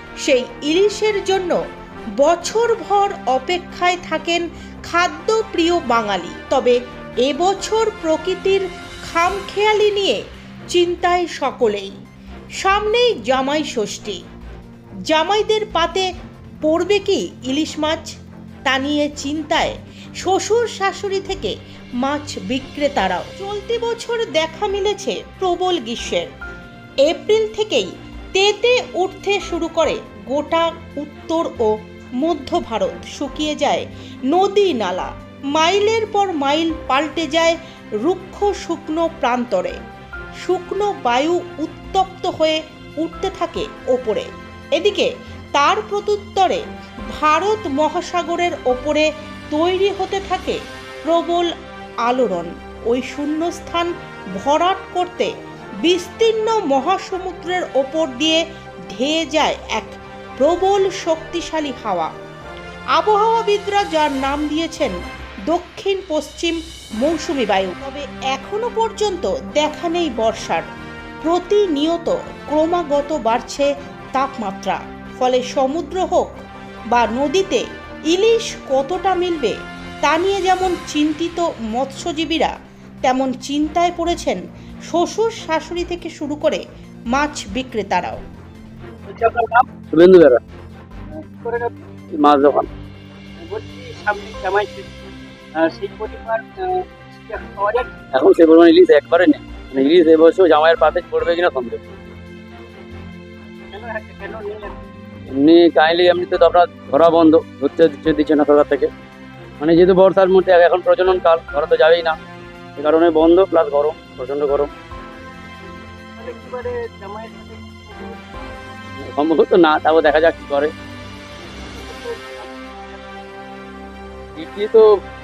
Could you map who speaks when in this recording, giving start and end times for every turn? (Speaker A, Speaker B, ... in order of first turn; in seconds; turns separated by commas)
Speaker A: 0.2-1.6, Speaker A: 2.2-11.9, Speaker A: 12.6-14.2, Speaker A: 15.1-16.1, Speaker A: 16.6-18.1, Speaker A: 18.6-26.3, Speaker A: 27.0-39.8, Speaker A: 40.4-46.6, Speaker A: 47.1-51.5, Speaker A: 52.0-55.3, Speaker A: 55.8-58.4, Speaker A: 58.9-62.1, Speaker A: 63.0-65.0, Speaker A: 65.5-70.7, Speaker A: 71.2-76.3, Speaker A: 76.9-86.6, Speaker A: 87.1-88.2, Speaker B: 89.1-89.7, Speaker C: 89.9-90.4, Speaker B: 91.1-91.7, Speaker C: 92.2-92.7, Speaker B: 93.4-94.9, Speaker B: 95.5-97.9, Speaker C: 98.1-101.8, Speaker B: 103.7-104.7, Speaker C: 105.3-108.9, Speaker C: 109.6-112.1, Speaker C: 112.8-114.7, Speaker B: 116.2-118.3, Speaker C: 119.0-120.7, Speaker B: 121.4-123.1, Speaker C: 124.4-124.8